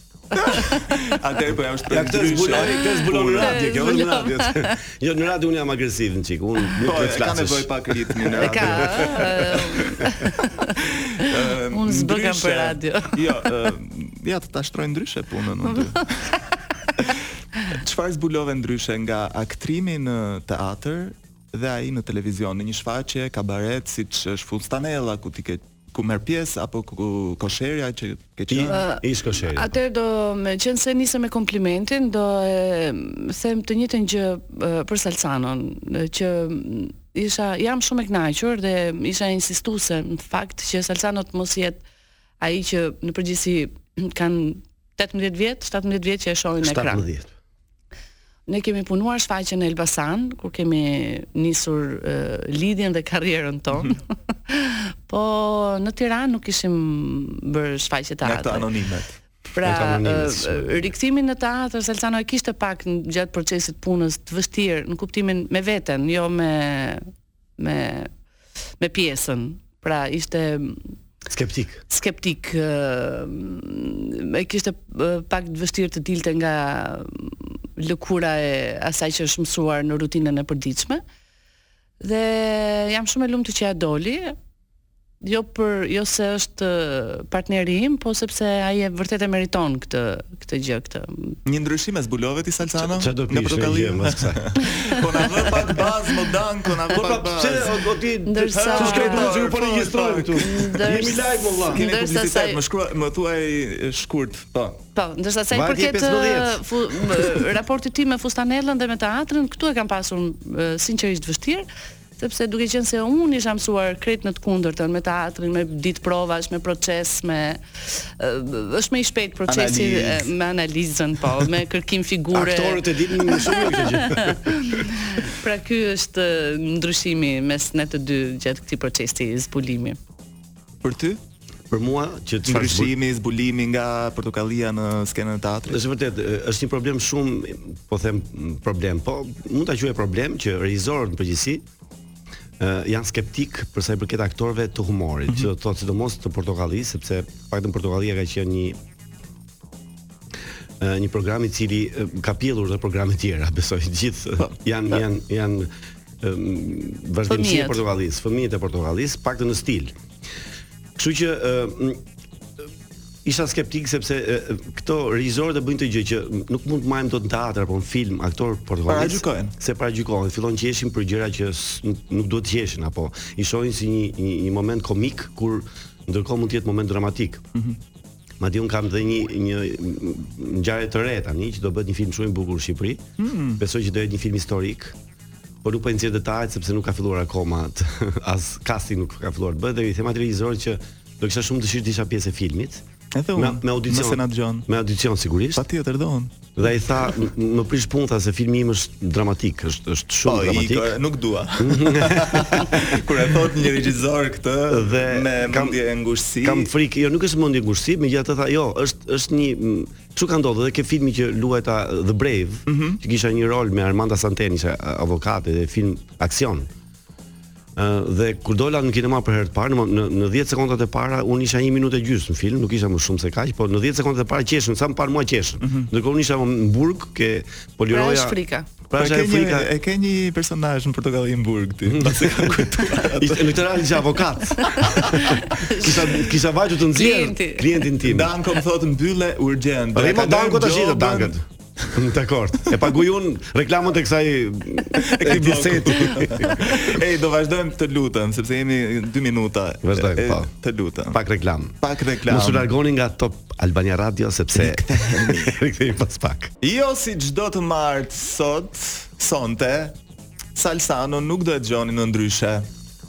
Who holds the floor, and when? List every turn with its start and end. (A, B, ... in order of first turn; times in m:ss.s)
0:00.3-0:03.6 A
0:01.9-0:10.1 B
0:03.3-0:04.7 C
0:06.8-0:16.3 A
0:08.3-0:13.7 C
0:15.7-0:16.1 C
0:17.0-0:28.8 A
0:28.5-0:29.7 B
0:28.7-0:41.8 C
0:42.4-0:47.0 C
0:46.6-0:47.3 B
0:48.5-0:58.7 C
0:58.2-0:59.2 A
0:59.5-1:07.1 C
0:59.6-1:00.9 B
1:07.6-1:08.1 C
1:08.8-1:10.9 C
1:11.3-1:11.8 B
1:11.9-1:21.0 C
1:22.0-1:24.4 C
1:25.2-1:31.4 C
1:31.4-1:37.8 A
1:32.9-1:34.6 B
1:36.9-1:41.8 B
1:38.2-1:39.4 C
1:38.5-1:40.7 A
1:40.4-1:42.6 C
1:41.7-1:44.8 A
1:44.9-1:51.7 C
1:45.5-1:47.5 B
1:52.2-2:10.0 C
1:59.5-2:00.3 A
2:02.3-2:04.6 B
2:10.8-2:11.2 A
2:11.7-2:12.9 B
2:12.4-2:15.8 A
2:15.7-2:21.6 B
2:22.6-2:28.8 B
2:30.8-2:39.9 B
2:37.3-2:37.8 C
2:41.0-2:42.0 B
2:43.2-2:57.4 B
2:48.9-2:49.6 A
2:57.5-2:57.8 A
2:58.4-3:03.0 B
3:03.2-3:03.6 A
3:03.6-3:05.0 B
3:05.6-3:12.8 B
3:13.1-3:14.7 A
3:13.3-3:15.6 B
3:15.6-3:16.5 A
3:16.6-3:20.9 B
3:20.2-3:26.7 A
3:21.6-3:23.0 B
3:24.7-3:25.8 B
3:26.4-3:36.7 B
3:32.7-3:33.0 A
3:37.8-3:48.4 B
3:45.6-3:45.9 A
3:47.9-3:48.7 C
3:48.9-3:49.7 B
3:49.0-3:53.6 A
3:51.8-3:58.3 B
3:54.6-3:55.4 A
3:54.8-3:56.4 C
3:56.9-3:57.9 C
3:58.0-4:01.3 A
3:59.9-4:07.0 B
4:04.9-4:11.2 A
4:09.8-4:10.5 B
4:11.1-4:16.5 B
4:11.8-4:12.7 A
4:14.5-4:15.6 A
4:16.6-4:20.0 A
4:20.6-4:22.7 A